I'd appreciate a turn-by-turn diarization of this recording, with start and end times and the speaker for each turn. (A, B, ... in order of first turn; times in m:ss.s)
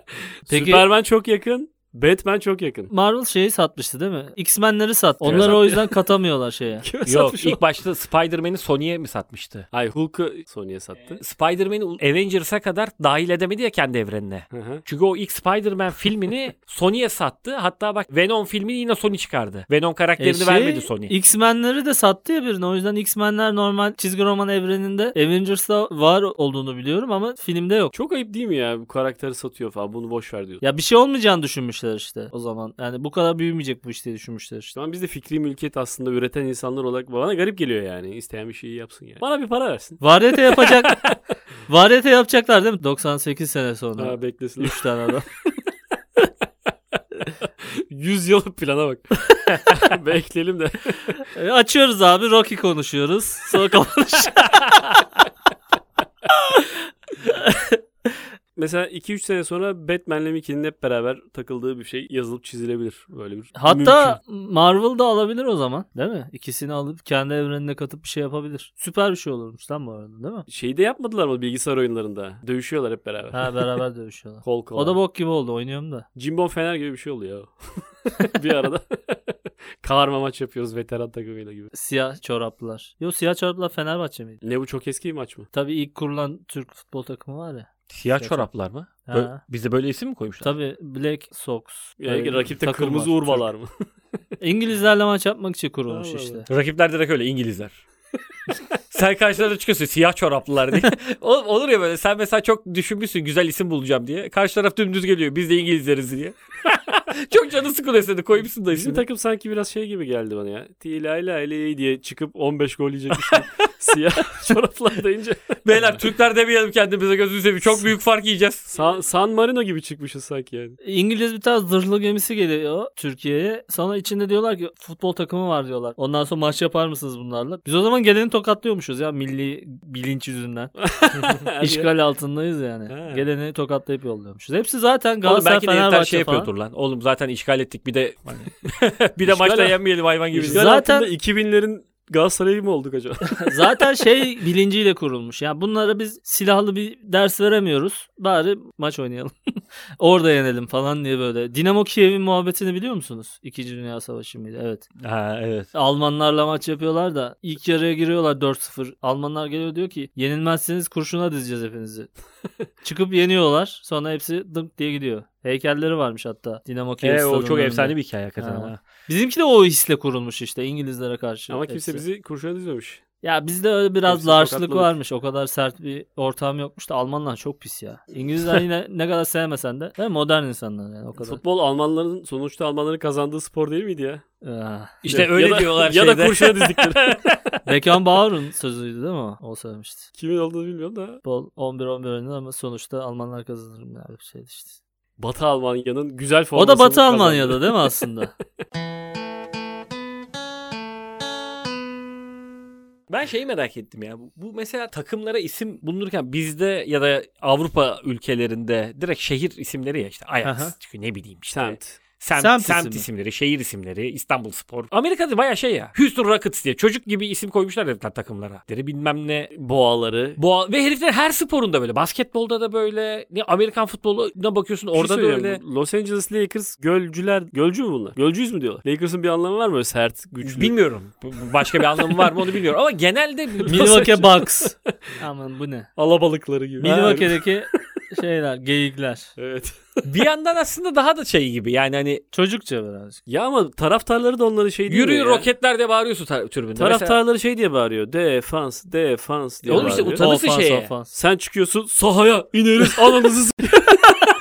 0:00.5-0:02.9 A
0:00.5-0:00.8 B
0:02.9-0:06.8 B
0:05.2-0:06.0 A
0:05.3-0:05.6 C
0:06.8-0:07.6 A
0:07.0-0:09.7 C
0:09.7-0:11.2 A
0:11.2-0:21.1 C
0:14.5-0:14.8 A
0:20.2-0:27.9 B
0:27.9-0:30.6 A
0:30.6-0:34.7 B
0:34.7-0:41.2 A
0:40.0-0:41.0 B
0:41.7-0:45.2 B
0:44.0-0:44.8 A
0:47.6-0:51.1 A
0:51.2-0:55.0 B
0:56.3-0:58.2 B
0:58.6-1:04.2 A
1:03.6-1:10.5 B
1:10.5-1:13.7 A
1:13.3-1:16.0 B
1:14.4-1:15.0 A
1:16.2-1:21.7 A
1:21.7-1:24.4 B
1:24.4-1:25.5 A
1:25.5-1:28.5 B
1:27.9-1:30.5 C
1:29.0-1:29.4 B
1:30.4-1:33.4 B
1:32.0-1:33.7 A
1:34.4-1:36.5 B
1:35.9-1:36.4 A
1:36.5-1:37.8 C
1:38.9-1:49.0 C
1:48.7-1:56.0 A
1:53.2-1:53.4 C
1:55.6-1:58.7 C
1:58.7-2:00.8 A
2:00.8-2:16.5 B
2:10.8-2:11.9 A
2:12.9-2:13.3 A
2:15.2-2:20.7 C
2:19.2-2:19.8 A
2:20.3-2:23.5 A
2:20.5-2:21.1 B
2:23.3-2:29.3 B
2:30.0-2:34.8 B
2:35.0-2:35.7 C
2:35.7-2:42.1 B
2:42.8-2:52.0 B
2:47.0-2:48.8 C
2:51.5-2:53.0 A
2:53.2-3:01.4 B
2:54.1-2:54.9 A
3:01.2-3:04.2 A
3:04.4-3:05.1 B
3:05.0-3:07.4 C
3:05.1-3:07.2 A
3:07.6-3:10.1 B
3:10.2-3:11.2 A
3:11.2-3:14.8 B
3:15.2-3:18.0 A
3:16.6-3:18.3 B
3:23.1-3:39.5 C
3:30.4-3:30.7 B
3:31.5-3:32.0 A
3:32.4-3:33.0 B
3:39.5-3:40.4 A
3:40.4-3:45.6 C
3:44.9-3:50.7 A
3:50.4-3:54.1 C
3:52.0-3:52.4 A
3:53.6-3:54.9 A
3:53.7-3:55.9 B
3:56.0-3:57.8 A
3:56.8-3:59.3 B
3:56.8-3:57.1 C
3:59.4-4:00.1 A
4:00.0-4:02.2 C
4:02.3-4:03.2 B
4:03.3-4:05.5 A
4:04.9-4:07.2 C
4:06.8-4:10.3 A
4:09.7-4:10.9 C
4:09.7-4:11.1 B
4:11.1-4:14.1 A